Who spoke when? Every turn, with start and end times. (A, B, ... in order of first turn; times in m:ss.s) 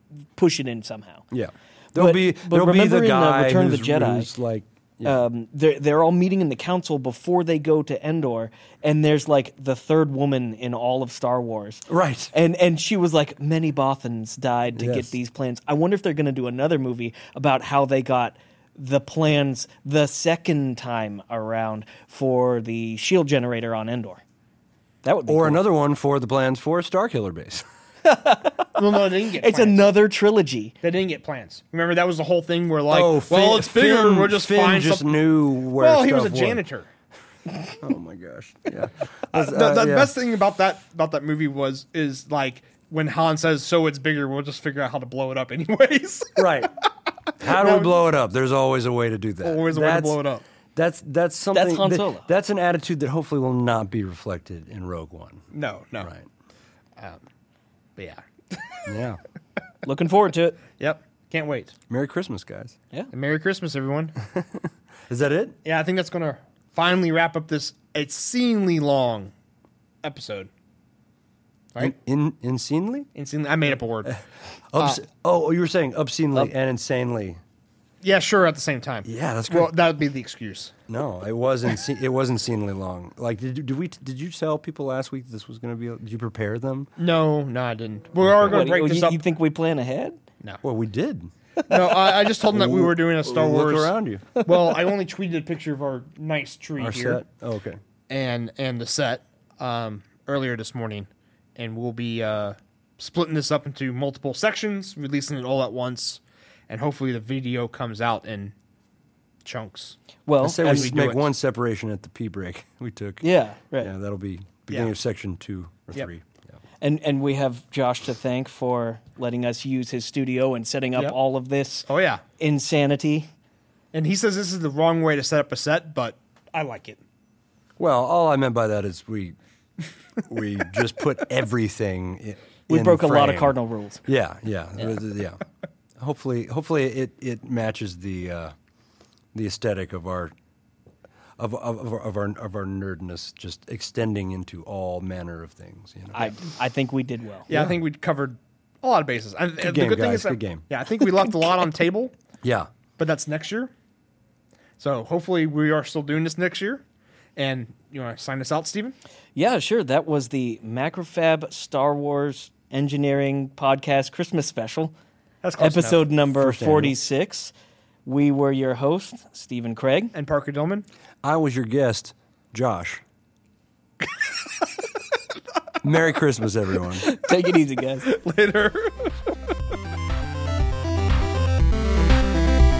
0:00.3-0:01.3 A
0:01.3-0:05.2 B
0:02.0-0:04.3 A
0:05.0-0:24.2 A
0:11.9-0:12.3 B
0:14.8-0:15.1 B
0:25.0-0:25.6 A
0:25.3-0:27.6 B
0:28.0-0:28.8 A
0:28.8-0:29.8 C
0:29.4-0:30.7 A
0:30.8-0:35.1 C
0:32.9-0:36.6 B
0:35.8-0:36.9 C
0:37.7-0:40.1 B
0:39.3-0:46.7 C
0:46.4-0:46.7 B
0:47.4-0:50.2 B
0:47.4-0:48.0 C
0:49.4-0:50.4 C
0:50.8-0:55.4 B
0:51.5-0:52.3 A
0:55.5-0:56.1 C
0:56.0-0:56.3 B
0:58.0-0:58.9 C
0:58.9-0:59.2 B
0:59.8-1:00.6 A
1:00.8-1:01.7 C
1:01.9-1:02.8 B
1:03.1-1:04.2 C
1:04.3-1:05.6 B
1:05.6-1:09.3 C
1:10.0-1:10.5 C
1:11.8-1:13.1 B
1:13.2-1:14.2 C
1:14.7-1:17.4 B
1:14.8-1:15.0 C
1:18.0-1:20.7 C
1:19.0-1:19.7 B
1:20.9-1:26.9 B
1:27.0-1:29.2 C
1:28.2-1:28.6 B
1:28.5-1:30.2 A
1:30.6-1:31.3 B
1:31.7-1:37.2 C
1:32.4-1:34.4 B
1:34.4-1:34.7 A
1:36.8-1:37.8 B
1:38.1-1:48.5 C
1:49.4-1:51.3 C
1:50.3-1:50.9 A
1:50.4-1:53.2 B
1:53.2-1:53.9 A
1:53.8-1:56.4 B
1:56.8-2:01.9 A
2:01.9-2:02.2 C
2:02.4-2:03.3 A
2:03.9-2:07.0 C
2:07.8-2:09.4 B
2:10.2-2:15.4 B
2:12.7-2:14.0 A
2:16.0-2:18.6 B
2:19.3-2:20.3 B
2:21.4-2:26.4 B
2:26.2-2:27.5 A
2:27.5-2:32.2 C
2:27.5-2:27.8 B
2:29.6-2:30.6 B
2:32.4-2:32.7 B
2:33.0-2:33.7 C
2:34.8-2:36.8 C
2:37.4-2:39.0 C
2:39.4-2:44.9 A
2:45.4-2:46.1 C
2:45.6-2:47.5 A
2:46.3-2:47.0 B
2:48.1-2:50.1 A
2:50.1-2:50.8 C
2:51.2-2:53.0 B
2:55.8-2:57.1 B
2:57.0-2:58.1 A
2:58.0-2:59.1 C